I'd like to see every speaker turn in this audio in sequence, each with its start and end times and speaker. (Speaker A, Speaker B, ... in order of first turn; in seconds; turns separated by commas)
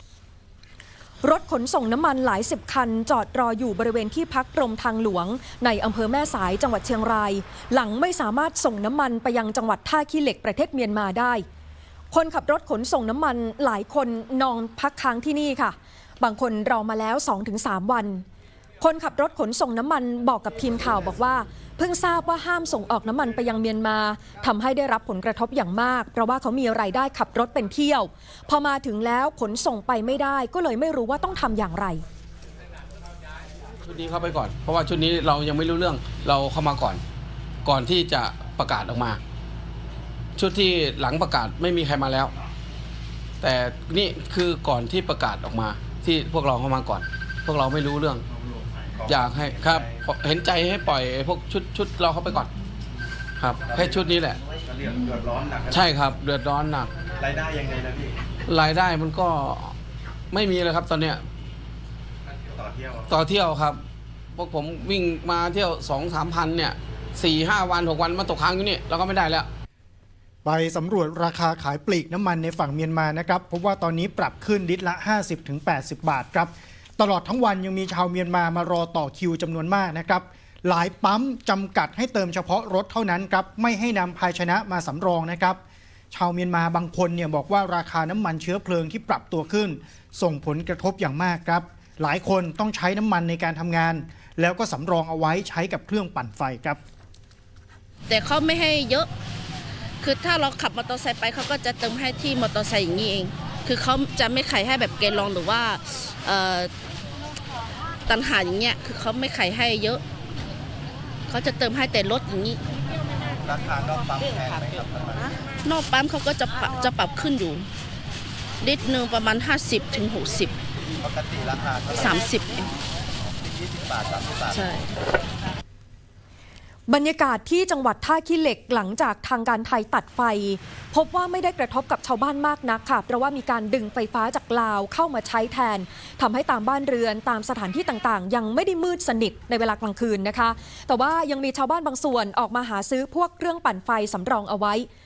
Speaker A: 1.2-11.4, Speaker A: 12.1-18.2, Speaker A: 18.8-32.0, Speaker B: 33.8-37.0, Speaker B: 37.6-39.2, Speaker B: 40.4-42.3, Speaker B: 43.4-48.2, Speaker C: 49.0-50.0, Speaker B: 49.1-52.5, Speaker B: 53.4-54.4, Speaker C: 53.7-56.0, Speaker B: 55.7-56.9, Speaker C: 57.2-58.2, Speaker B: 58.5-59.8, Speaker B: 60.3-61.2, Speaker C: 62.5-63.1, Speaker B: 63.1-63.8, Speaker B: 64.3-69.5, Speaker D: 70.5-85.6, Speaker D: 86.1-96.8, Speaker E: 98.1-99.1, Speaker E: 100.0-106.7, Speaker E: 108.1-110.0, Speaker E: 111.3-112.6, Speaker C: 113.4-115.3, Speaker E: 115.7-117.7, Speaker E: 118.6-120.5, Speaker C: 121.0-122.0, Speaker E: 121.9-122.7, Speaker C: 123.4-124.6, Speaker E: 124.5-125.0, Speaker A: 126.9-144.9